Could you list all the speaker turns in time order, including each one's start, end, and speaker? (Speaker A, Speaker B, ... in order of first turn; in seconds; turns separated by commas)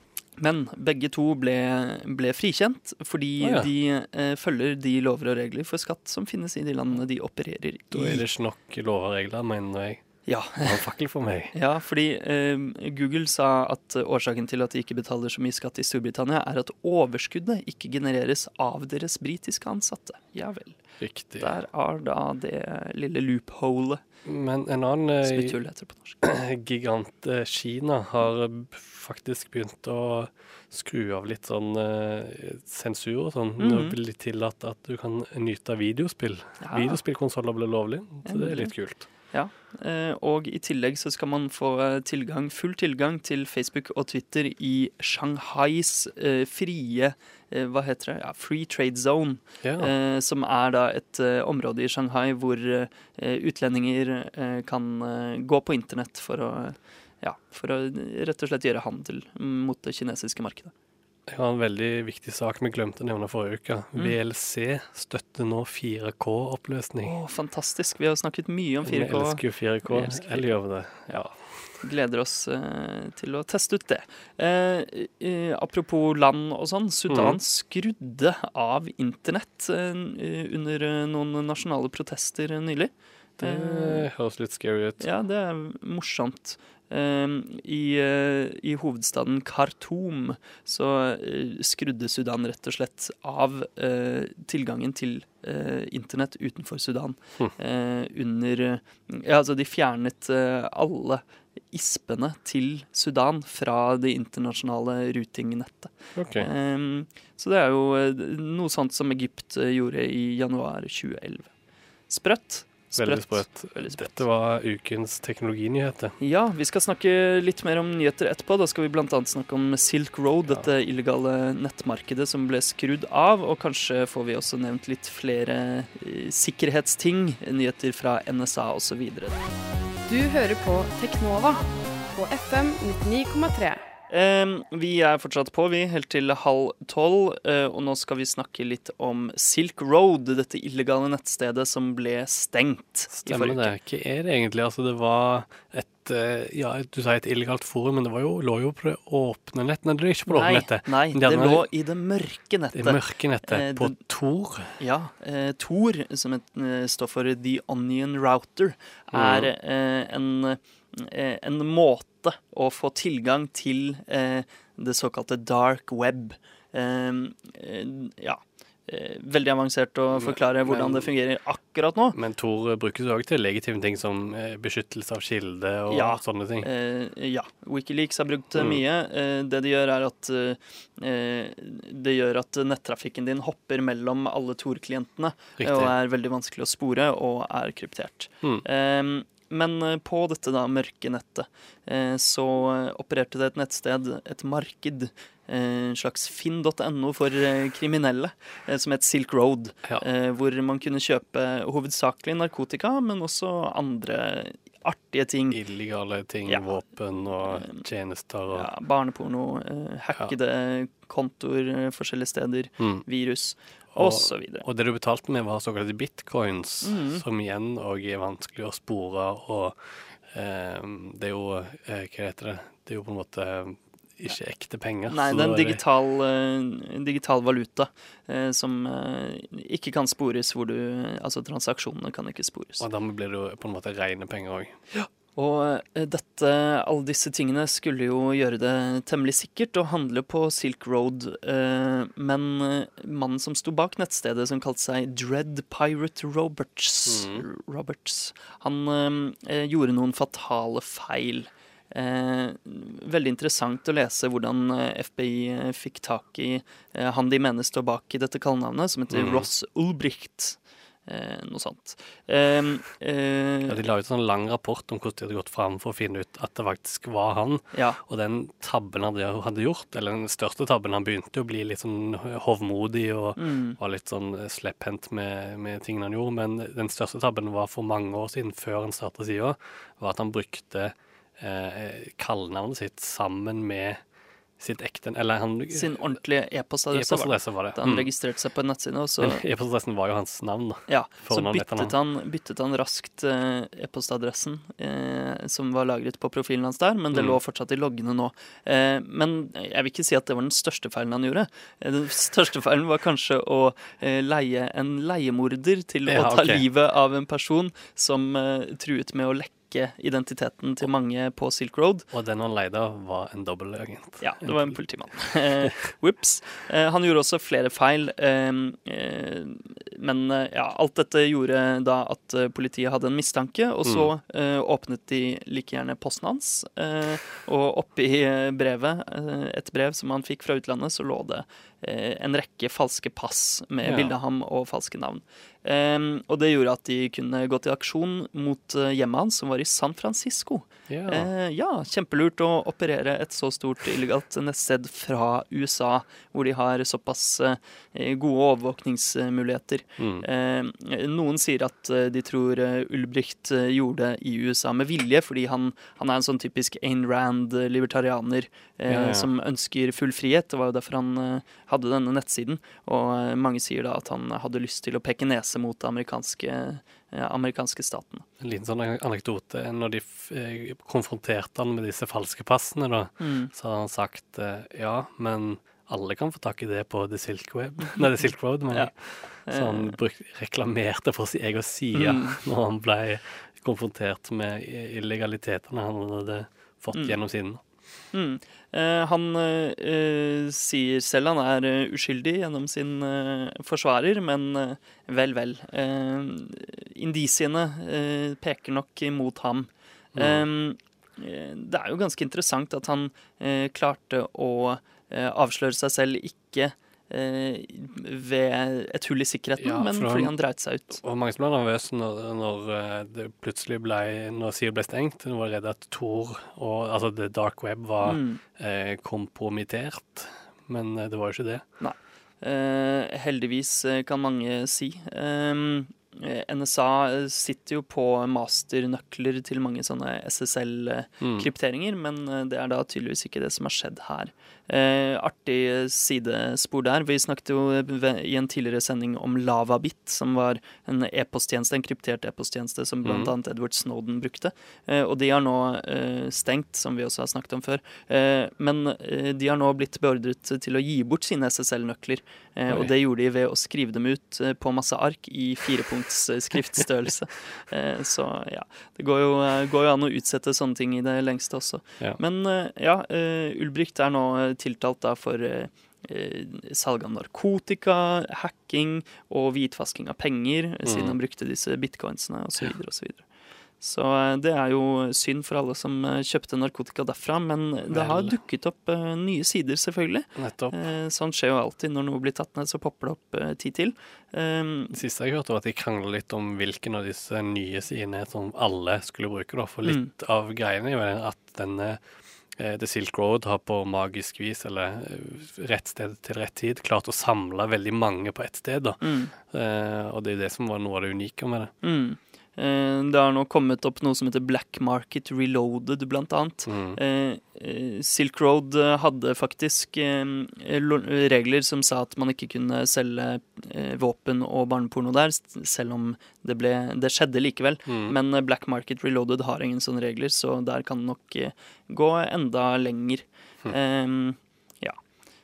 Speaker A: 0.4-8.2, Speaker B: 3.4-3.7, Speaker B: 7.9-11.6, Speaker A: 10.3-10.8, Speaker A: 11.5-20.8, Speaker B: 21.0-21.5, Speaker A: 21.4-24.0, Speaker B: 24.2-25.6, Speaker A: 25.2-26.2, Speaker B: 26.2-39.1, Speaker A: 33.6-34.0, Speaker A: 36.6-37.0, Speaker A: 38.2-60.7, Speaker B: 49.6-49.9, Speaker B: 61.3-67.2, Speaker A: 67.0-70.5, Speaker B: 68.8-71.8, Speaker A: 71.8-84.1, Speaker B: 77.1-77.4, Speaker B: 83.4-85.1, Speaker A: 85.0-111.5, Speaker B: 106.2-106.5, Speaker A: 112.1-114.2, Speaker B: 113.0-116.2, Speaker A: 116.2-129.4, Speaker C: 130.1-131.6, Speaker C: 132.1-133.8, Speaker A: 134.1-143.8, Speaker B: 143.1-151.7, Speaker A: 150.3-154.0, Speaker B: 152.7-154.8, Speaker A: 154.8-172.2, Speaker B: 159.1-159.5, Speaker B: 170.1-171.1, Speaker B: 172.1-176.7, Speaker A: 175.9-205.6, Speaker B: 178.6-178.8, Speaker B: 185.6-185.9, Speaker B: 205.5-208.7, Speaker A: 206.5-206.8, Speaker A: 207.5-207.8, Speaker A: 208.5-214.7, Speaker B: 212.8-213.1, Speaker B: 213.9-225.8, Speaker A: 216.8-217.2, Speaker A: 225.1-232.9, Speaker B: 232.8-234.8, Speaker A: 234.9-263.8, Speaker B: 247.1-247.5, Speaker B: 259.1-259.5, Speaker B: 263.7-284.0, Speaker A: 267.7-268.0, Speaker A: 273.4-273.8, Speaker B: 284.6-286.2, Speaker A: 285.7-289.4, Speaker B: 286.9-288.1, Speaker B: 289.2-291.9, Speaker A: 290.9-312.1, Speaker B: 297.1-297.4, Speaker B: 306.1-306.6, Speaker B: 312.1-314.8, Speaker A: 314.2-368.3, Speaker B: 333.8-334.1, Speaker B: 340.9-341.3, Speaker B: 350.0-350.3, Speaker B: 358.9-359.3, Speaker B: 368.4-387.6, Speaker A: 373.2-373.5, Speaker A: 378.7-380.0, Speaker A: 381.9-382.4, Speaker A: 388.1-411.0, Speaker B: 400.1-400.4, Speaker B: 409.6-410.3, Speaker B: 410.9-421.6, Speaker A: 418.0-418.4, Speaker A: 421.8-473.3, Speaker B: 431.2-431.5, Speaker B: 443.0-443.3, Speaker B: 470.9-471.2, Speaker A: 473.8-484.9, Speaker B: 477.9-478.4, Speaker B: 480.4-480.8, Speaker B: 484.9-492.0, Speaker A: 489.8-490.1, Speaker B: 492.5-501.7, Speaker A: 499.0-499.3, Speaker A: 501.8-525.0, Speaker B: 506.7-507.0, Speaker B: 517.9-518.2